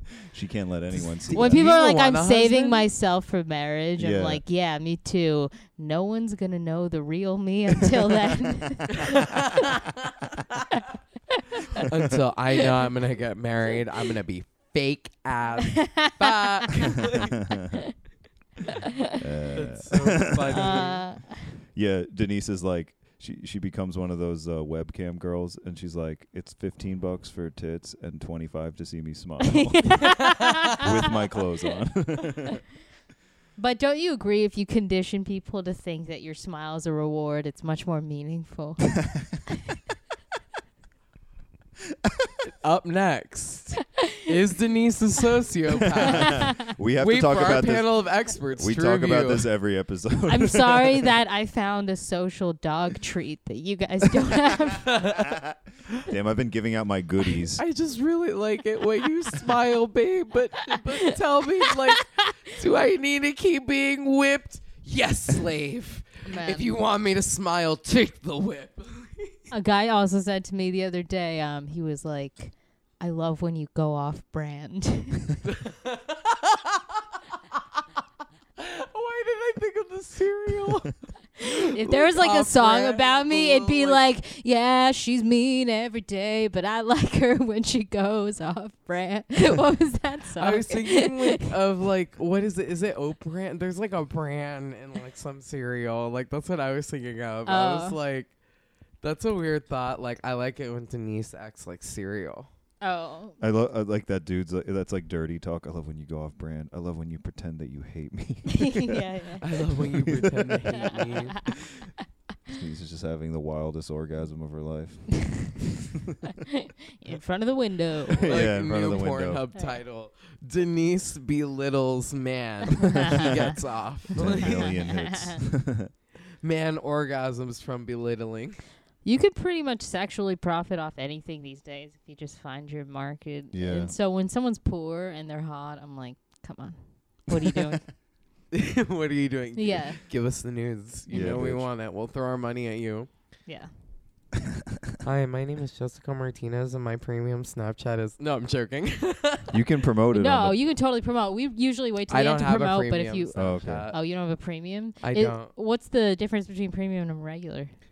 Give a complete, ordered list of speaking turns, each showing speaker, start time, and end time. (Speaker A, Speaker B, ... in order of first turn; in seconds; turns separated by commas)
Speaker A: 0.3-1.7, Speaker B: 0.9-2.8, Speaker C: 1.3-9.5, Speaker A: 4.0-4.4, Speaker B: 9.0-9.9, Speaker C: 11.4-11.8, Speaker B: 11.7-17.4, Speaker C: 15.7-16.1, Speaker A: 17.3-17.7, Speaker A: 19.2-20.9, Speaker B: 19.5-21.0, Speaker C: 20.5-21.5, Speaker A: 21.7-32.6, Speaker C: 29.4-31.1, Speaker C: 33.6-39.0, Speaker A: 42.0-42.3, Speaker B: 42.4-49.5, Speaker A: 46.1-48.0, Speaker A: 48.6-51.1, Speaker C: 50.3-55.1, Speaker B: 54.8-55.3, Speaker A: 55.3-55.5, Speaker A: 56.0-57.6, Speaker B: 57.6-69.5, Speaker C: 66.2-66.7, Speaker C: 69.5-75.4, Speaker B: 75.4-77.0, Speaker B: 78.6-84.0, Speaker C: 81.6-91.4, Speaker B: 90.4-98.3, Speaker C: 97.5-98.0, Speaker B: 99.0-102.5, Speaker C: 102.8-103.4, Speaker A: 103.4-109.0, Speaker C: 108.5-109.5, Speaker B: 109.4-111.4, Speaker A: 109.7-111.9, Speaker C: 110.9-111.4, Speaker A: 112.5-116.1, Speaker C: 117.0-118.4, Speaker A: 118.2-119.4, Speaker B: 118.2-124.7, Speaker C: 123.0-123.3, Speaker A: 124.1-125.9, Speaker C: 124.4-125.4, Speaker B: 126.4-128.6, Speaker C: 129.0-137.9, Speaker A: 133.5-133.9, Speaker B: 138.5-143.1, Speaker C: 139.6-140.0, Speaker A: 141.1-141.7, Speaker B: 145.0-149.6, Speaker A: 149.5-150.6, Speaker C: 150.1-157.7, Speaker B: 152.1-154.0, Speaker A: 153.3-153.9, Speaker B: 155.0-155.5